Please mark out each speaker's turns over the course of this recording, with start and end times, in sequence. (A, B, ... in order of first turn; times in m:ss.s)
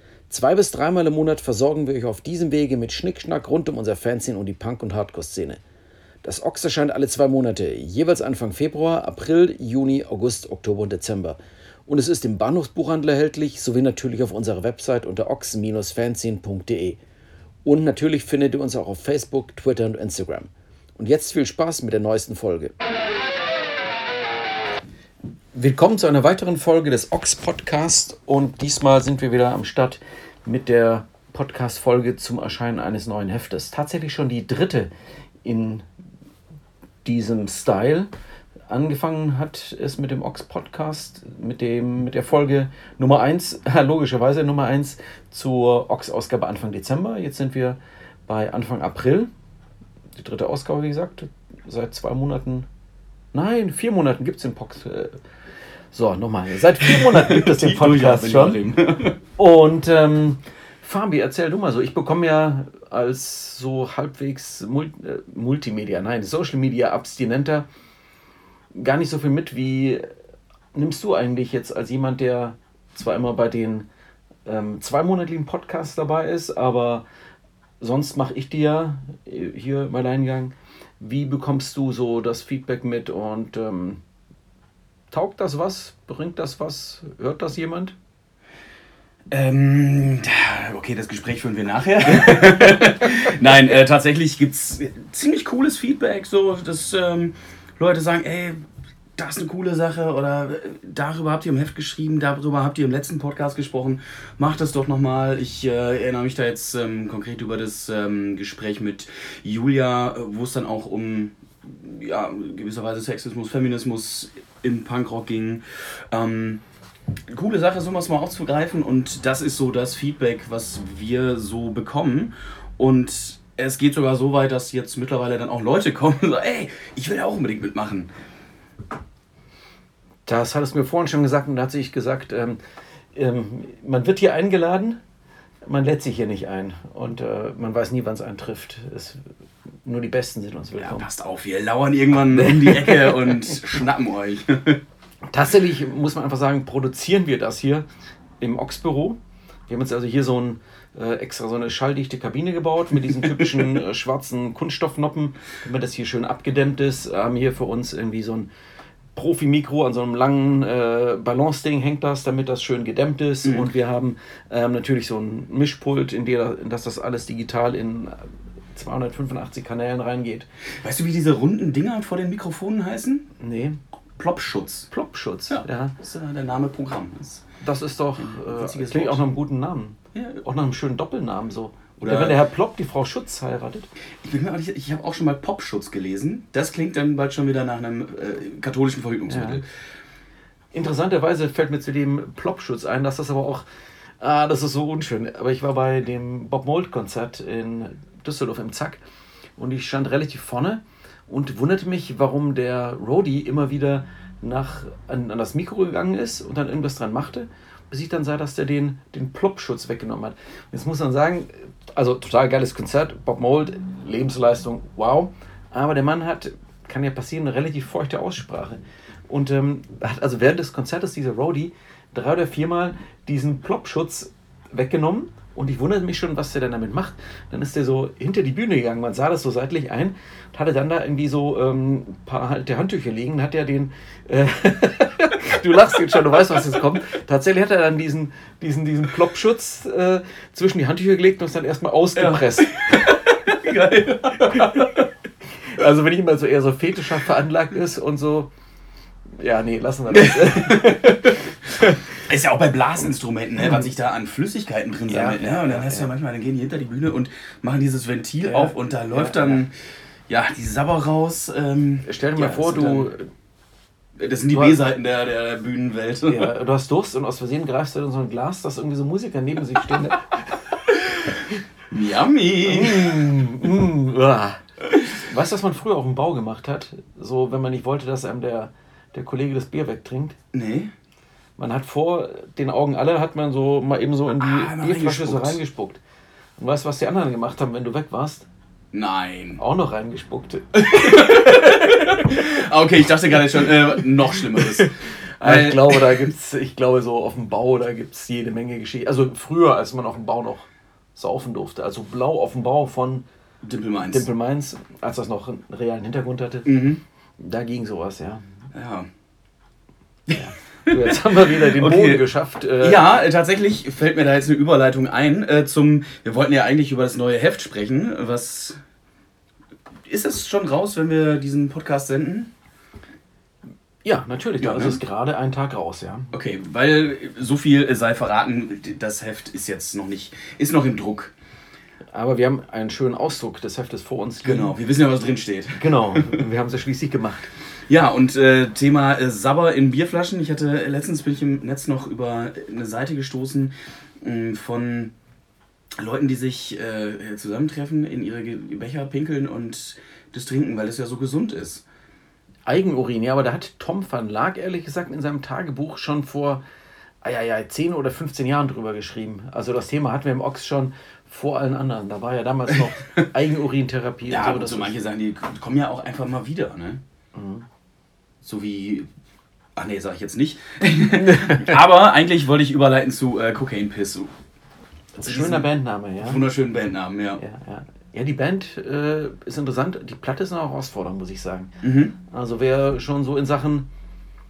0:00.3-0:05.6 A
0:06.2-0:17.0 A
0:17.6-0:22.7 A
0:25.5-0:34.9 A
0:35.4-0:35.8 A
0:37.0-0:38.1 A
0:38.7-0:49.3 A
0:50.2-0:52.7 A
0:53.3-0:55.2 A
0:55.9-0:58.6 A
0:56.8-0:59.2 B
0:59.4-1:07.6 A
1:08.7-1:10.1 A
1:10.7-1:13.9 A
1:14.4-1:17.0 A
1:17.8-1:24.0 A
1:25.1-1:28.0 A
1:29.3-1:38.6 B
1:39.2-1:56.6 B
1:57.3-2:08.1 B
2:10.2-2:12.6 A
2:13.1-2:15.0 A
2:15.6-2:19.2 A
2:19.8-2:21.1 A
2:20.8-2:24.8 B
2:22.3-2:23.6 A
2:25.3-2:27.8 A
2:28.4-2:38.5 A
2:33.1-2:33.7 B
2:39.2-2:50.4 A
2:43.4-2:43.7 B
2:50.8-2:53.3 B
2:53.4-2:53.8 A
2:54.2-2:54.9 B
2:54.9-2:55.9 A
2:55.5-2:57.5 B
2:57.6-3:03.9 A
2:58.2-2:59.3 B
3:00.1-3:00.4 B
3:02.0-3:02.4 B
3:04.2-3:09.7 B
3:09.3-3:09.6 A
3:10.7-3:13.6 A
3:14.2-3:19.0 A
3:19.6-4:03.1 A
4:02.2-4:05.1 B
4:04.5-4:04.9 A
4:05.6-4:08.5 A
4:09.4-4:12.2 A
4:10.1-4:11.3 B
4:12.1-4:19.7 B
4:15.1-4:16.1 A
4:18.4-4:19.6 A
4:20.3-4:23.1 B
4:22.0-4:23.3 A
4:24.2-4:26.5 B
4:24.5-4:24.8 A
4:26.3-4:30.6 A
4:31.9-4:33.3 B
4:32.6-4:40.4 A
4:40.5-4:40.9 B
4:41.6-4:46.0 A
4:44.4-4:45.6 B
4:46.6-4:48.5 A
4:48.9-4:49.6 B
4:49.6-4:52.4 A
4:50.8-4:56.3 B
4:54.5-5:03.2 A
5:03.6-5:04.3 B
5:04.1-5:06.7 A
5:06.6-5:07.0 B
5:07.4-5:08.4 A
5:08.7-5:09.1 B
5:10.3-5:12.2 B
5:10.3-5:13.0 A
5:12.8-5:18.8 B
5:20.0-5:22.5 B
5:24.0-5:26.3 A
5:24.6-5:25.0 B
5:26.3-5:31.3 B
5:32.1-5:34.8 A
5:34.4-5:36.4 B
5:35.8-5:37.5 A
5:37.9-5:45.1 B
5:46.0-5:51.8 B
5:52.7-5:56.6 A
5:57.2-6:04.9 A
6:04.3-6:07.0 B
6:07.3-6:07.6 A
6:08.4-6:09.1 B
6:09.8-6:14.3 B
6:11.1-6:11.8 A
6:15.1-6:16.4 A
6:15.2-6:15.7 B
6:16.2-6:17.4 B
6:17.4-6:21.7 A
6:21.8-6:22.1 B
6:22.2-6:23.9 A